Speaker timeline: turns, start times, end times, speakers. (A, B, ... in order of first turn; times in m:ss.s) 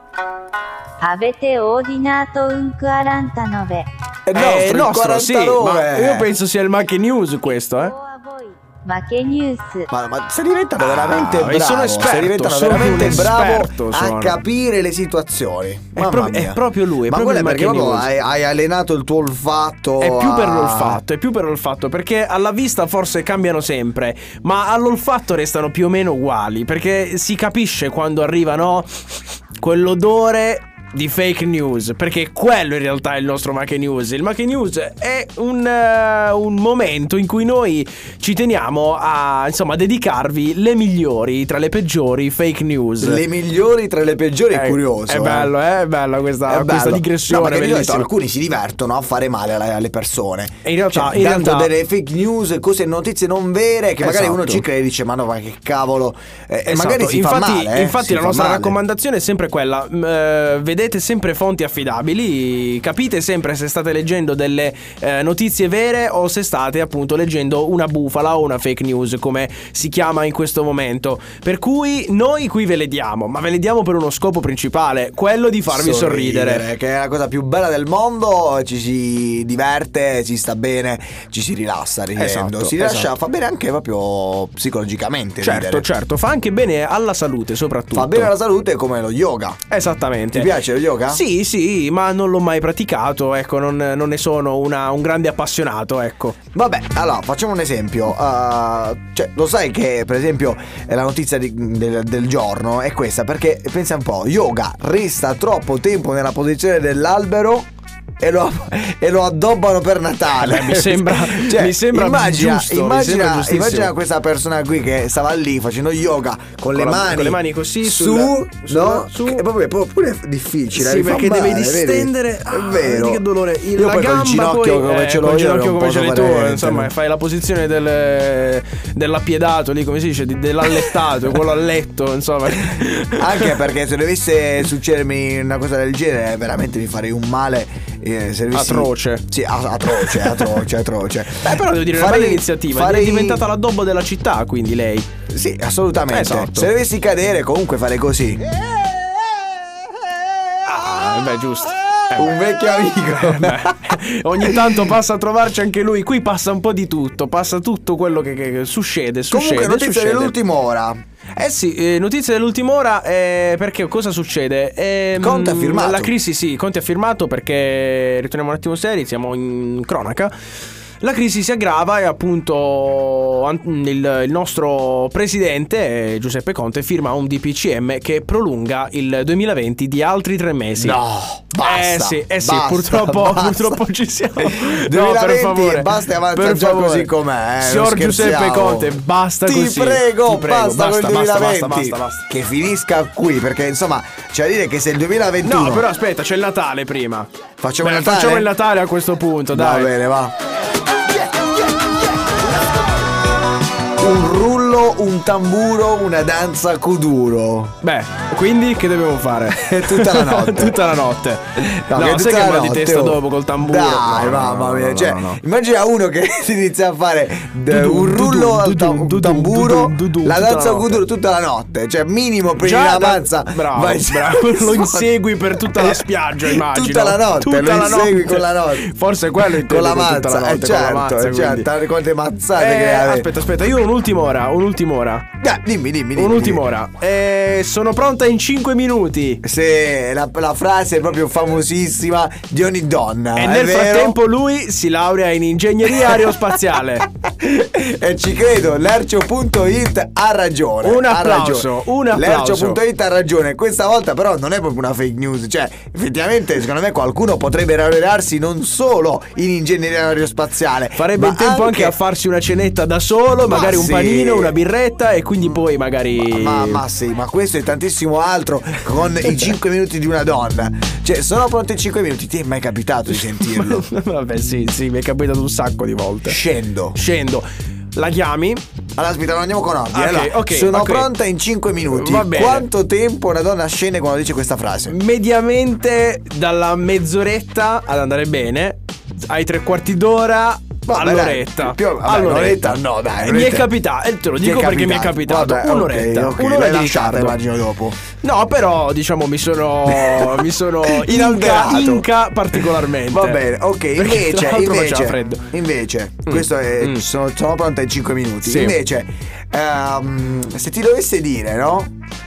0:01.0-0:03.9 A
0:04.2-0:06.3 B
0:04.3-0:07.9 C
0:07.5-0:09.9 A
0:09.9-0:21.0 B
0:10.8-0:14.4 C
0:16.0-0:18.1 C
0:20.0-0:28.9 C
0:29.6-0:43.2 C
0:43.0-0:45.5 B
0:44.5-0:48.1 C
0:46.5-0:58.7 B
0:50.6-0:51.7 C
0:54.0-0:54.6 C
0:56.7-1:16.6 C
1:15.7-1:25.9 B
1:22.2-1:23.1 C
1:25.4-1:28.3 C
1:27.9-1:29.6 B
1:29.7-1:30.6 C
1:30.3-1:31.2 B
1:31.1-1:36.4 C
1:36.5-1:47.7 B
1:48.2-2:03.2 B
1:50.4-1:53.9 C
1:56.7-1:59.4 C
2:00.7-2:13.6 C
2:03.7-2:06.9 B
2:13.2-2:23.4 B
2:18.5-2:19.2 C
2:19.9-2:20.6 C
2:21.4-2:25.1 C
2:25.3-2:28.5 B
2:26.1-2:26.7 C
2:30.6-2:32.4 C
2:32.2-2:33.9 B
2:32.9-2:40.3 C
2:34.4-2:34.8 B
2:39.3-2:41.0 B
2:41.4-2:50.3 C
2:45.2-2:46.1 B
2:51.0-3:01.0 C
3:00.8-3:03.8 B
3:01.6-3:12.3 C
3:04.4-3:15.9 B
3:15.4-3:17.3 C
3:17.6-3:18.5 B
3:17.8-3:19.9 C
3:19.5-3:20.3 B
3:24.0-3:27.7 B
3:27.8-3:35.4 C
3:29.7-3:30.8 B
3:31.6-3:48.9 B
3:37.7-3:41.0 C
3:42.6-3:51.7 C
3:49.4-3:53.3 B
3:52.6-3:55.3 C
3:55.4-3:56.6 B
3:56.1-3:59.4 C
3:59.4-4:04.2 B
4:03.4-4:07.1 C
4:05.9-4:06.4 B
4:07.2-4:22.0 B
4:10.8-4:12.8 C
4:21.0-4:26.8 C
4:23.4-4:24.5 B
4:26.2-4:33.8 B
4:29.2-4:29.5 C
4:33.1-4:36.4 C
4:36.2-4:37.0 B
4:36.9-4:38.6 C
4:39.0-4:45.0 B
4:39.9-4:41.1 C
4:41.9-4:42.7 C
4:44.9-4:57.4 C
4:50.9-4:53.7 B
4:54.4-4:58.0 B
4:58.2-5:05.4 C
4:59.8-5:11.9 B
5:06.3-5:07.0 C
5:08.4-5:08.8 C